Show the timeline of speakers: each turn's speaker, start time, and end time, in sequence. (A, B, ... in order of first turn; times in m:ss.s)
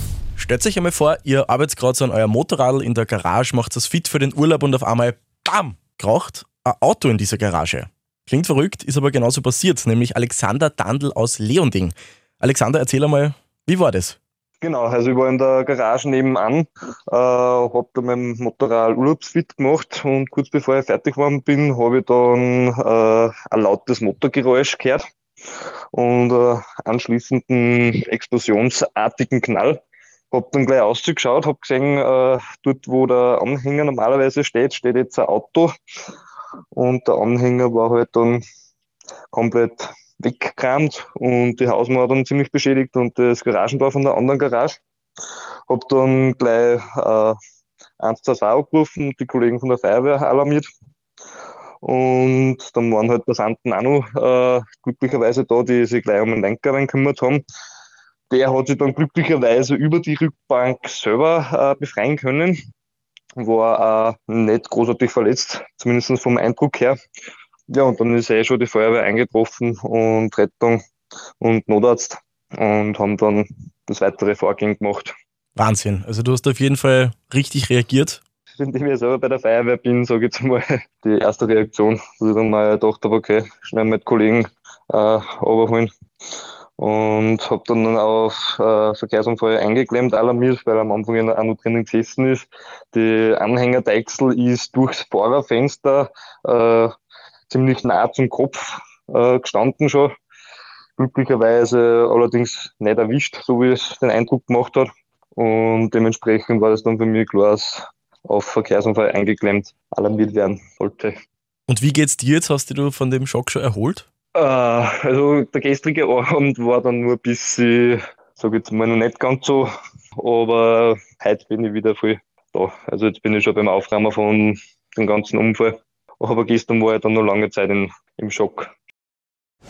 0:00.4-0:14.2 A
0:14.6-0:25.0 B
0:25.9-0:35.7 B
0:36.7-0:38.4 B
0:39.3-0:44.8 B
0:45.7-0:47.4 B
0:48.0-0:50.7 B
0:51.8-0:57.4 B
0:58.3-1:02.6 B
1:03.4-1:07.0 B
1:07.7-1:10.8 B
1:11.4-1:15.1 B
1:15.6-1:18.2 A
1:18.5-1:25.9 B
1:26.8-1:36.9 B
1:37.5-1:40.1 B
1:41.0-1:51.1 B
1:51.7-1:54.0 A
1:54.3-2:08.7 B